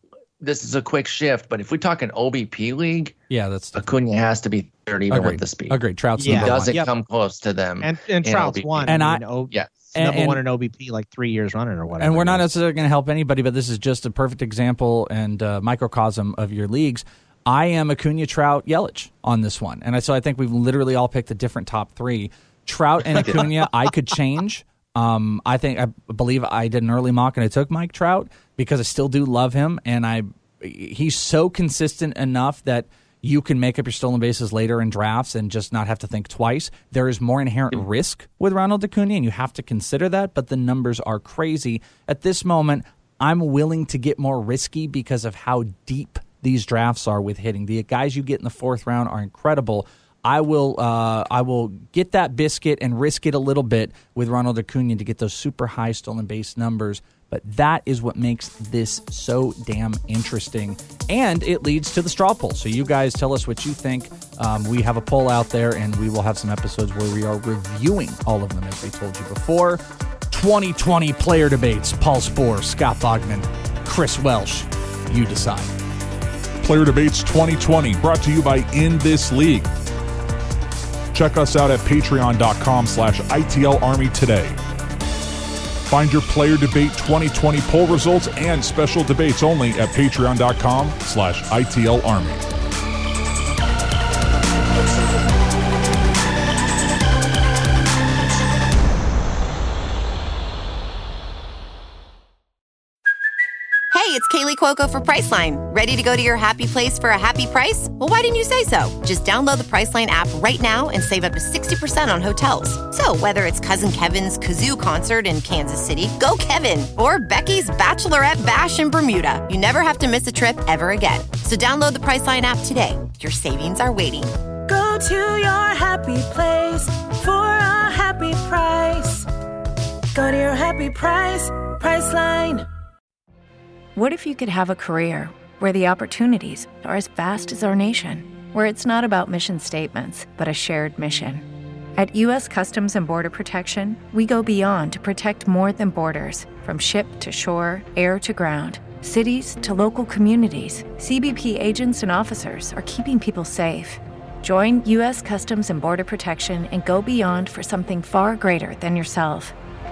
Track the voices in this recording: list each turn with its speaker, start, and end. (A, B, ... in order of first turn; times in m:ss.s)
0:00.4-0:03.2 A
0:03.3-0:03.8 B
0:03.8-0:08.9 A
0:05.1-0:06.8 B
0:06.2-0:06.9 C
0:07.8-0:12.5 C
0:08.9-0:09.2 B
0:09.5-0:09.8 A
0:09.9-0:10.4 B
0:12.0-1:15.7 B
1:16.6-1:19.7 D
1:21.1-1:24.6 D
1:25.9-1:32.4 D
1:43.9-2:04.3 E
2:04.7-2:09.3 F
2:10.1-2:12.7 F
2:14.0-2:39.5 G